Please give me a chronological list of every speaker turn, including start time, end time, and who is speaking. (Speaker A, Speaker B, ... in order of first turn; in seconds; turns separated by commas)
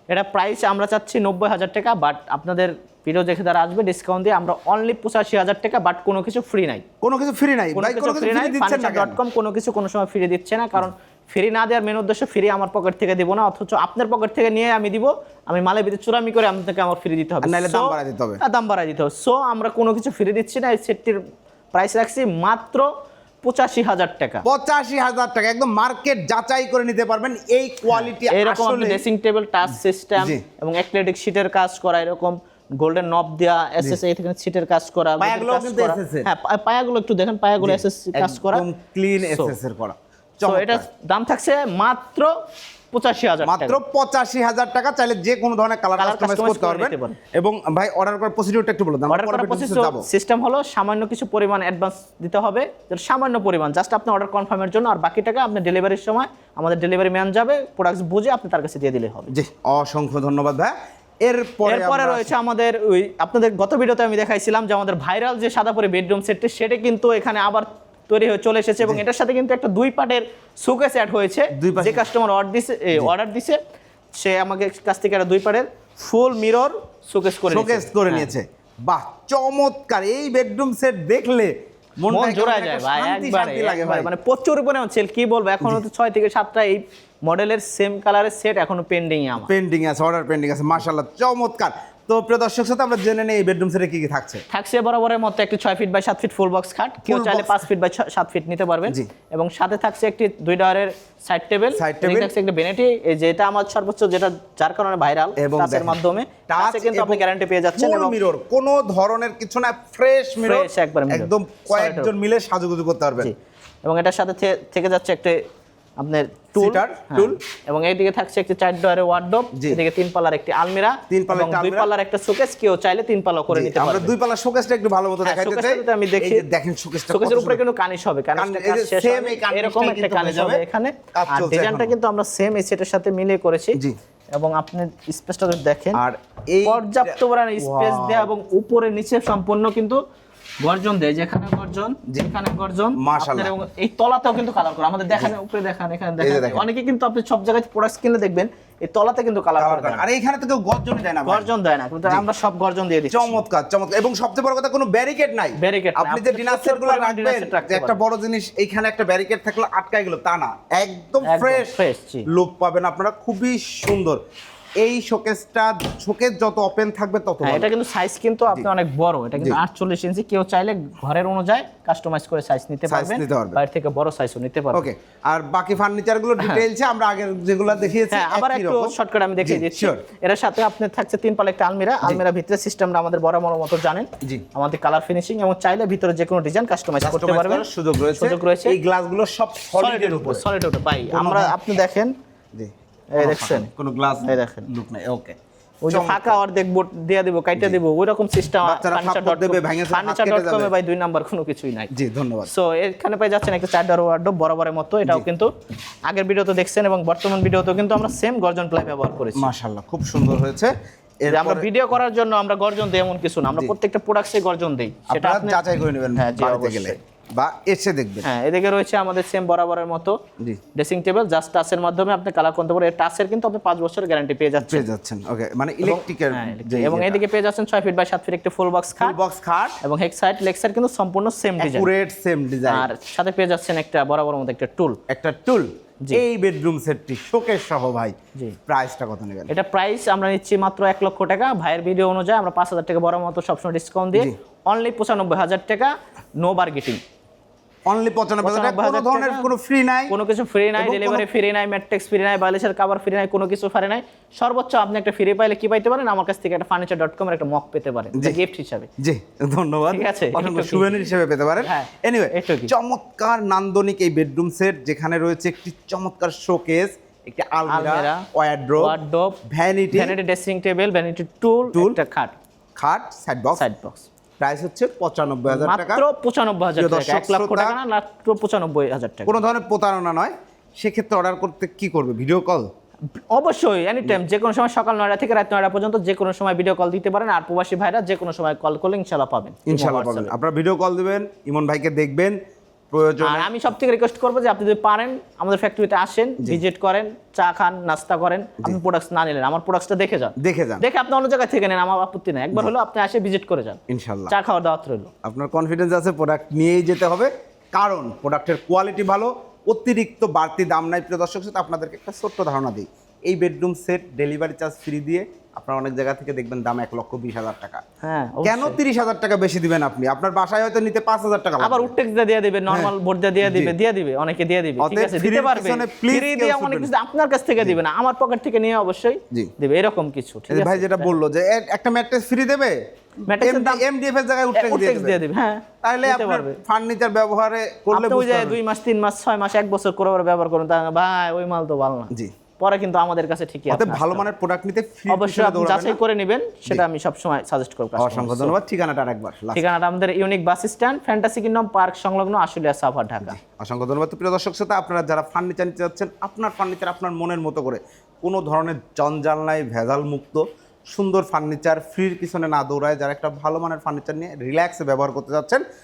Speaker A: 0.1-6.8, Speaker B: 7.0-9.2, Speaker A: 7.7-21.2, Speaker B: 17.4-18.4, Speaker A: 21.7-22.9, Speaker A: 23.4-24.4, Speaker B: 24.4-29.1, Speaker A: 27.9-38.6, Speaker B: 30.2-30.4, Speaker B: 35.2-36.3, Speaker B: 37.6-40.9, Speaker A: 39.2-39.6, Speaker A: 40.4-42.3, Speaker A: 42.9-43.8, Speaker B: 43.4-50.1, Speaker A: 46.0-47.2, Speaker A: 49.1-59.3, Speaker B: 59.3-62.3, Speaker A: 61.6-73.6, Speaker B: 71.5-72.1, Speaker A: 74.2-78.3, Speaker B: 77.5-84.1, Speaker A: 82.1-89.5, Speaker B: 89.5-94.4, Speaker A: 94.5-108.2, Speaker B: 97.1-97.6, Speaker B: 101.8-102.3, Speaker B: 105.4-113.3, Speaker A: 110.4-112.1, Speaker A: 113.8-115.4, Speaker A: 116.0-124.1, Speaker B: 116.5-117.4, Speaker B: 119.5-119.8, Speaker B: 121.1-121.9, Speaker B: 123.5-127.6, Speaker A: 125.2-126.5, Speaker A: 127.1-133.8, Speaker B: 128.4-131.9, Speaker A: 134.3-136.0, Speaker B: 135.9-138.3, Speaker A: 136.6-140.0, Speaker A: 140.6-150.1, Speaker B: 143.0-143.5, Speaker B: 146.2-146.7, Speaker B: 149.6-151.5, Speaker A: 151.3-153.4, Speaker B: 153.1-164.2, Speaker A: 155.6-158.0, Speaker A: 161.2-162.3, Speaker B: 164.8-167.7, Speaker A: 167.4-174.9, Speaker B: 172.9-173.6, Speaker B: 174.7-180.0, Speaker A: 176.4-176.6, Speaker A: 178.1-188.8, Speaker B: 187.0-190.4, Speaker A: 189.8-192.1, Speaker B: 191.1-191.6, Speaker B: 192.6-195.4, Speaker A: 193.1-193.7, Speaker A: 194.2-194.7, Speaker A: 195.8-201.9, Speaker B: 195.9-196.4, Speaker B: 197.6-197.8, Speaker B: 198.6-200.7, Speaker B: 201.9-202.5, Speaker A: 202.4-205.5, Speaker A: 206.1-209.5, Speaker B: 209.3-211.7, Speaker A: 211.3-215.6, Speaker B: 215.1-218.3, Speaker A: 216.2-217.0, Speaker A: 218.2-220.2, Speaker A: 220.8-224.9, Speaker B: 224.6-227.2, Speaker A: 225.8-229.2, Speaker B: 229.0-229.8, Speaker A: 229.8-231.9, Speaker B: 231.6-232.9, Speaker A: 232.7-235.0, Speaker B: 235.1-238.2, Speaker B: 238.7-239.5, Speaker A: 239.5-247.0, Speaker B: 247.9-250.2, Speaker A: 248.4-249.5, Speaker A: 250.1-258.9, Speaker B: 250.8-251.3, Speaker B: 259.0-270.2, Speaker A: 259.9-261.0, Speaker A: 261.6-262.7, Speaker A: 267.7-268.2, Speaker A: 268.8-269.4, Speaker A: 269.9-272.4, Speaker B: 271.7-272.0, Speaker B: 272.8-273.6, Speaker A: 273.6-274.1, Speaker B: 274.4-276.0, Speaker A: 275.5-279.4, Speaker B: 276.8-277.8, Speaker B: 279.3-282.7, Speaker A: 283.2-290.3, Speaker B: 289.7-292.4, Speaker B: 292.9-293.5, Speaker A: 293.2-305.1, Speaker B: 300.4-300.9, Speaker B: 303.9-304.4, Speaker B: 305.2-317.8, Speaker A: 318.0-318.8, Speaker B: 318.4-321.9, Speaker A: 321.6-331.1, Speaker B: 322.7-323.8, Speaker B: 324.8-326.9, Speaker B: 330.5-332.8, Speaker A: 333.2-333.8, Speaker B: 333.3-335.2, Speaker A: 334.5-336.6, Speaker B: 335.8-338.6, Speaker A: 337.9-344.3, Speaker B: 343.7-346.0, Speaker A: 345.1-348.6, Speaker B: 348.0-349.6, Speaker A: 349.5-353.4, Speaker B: 353.2-365.6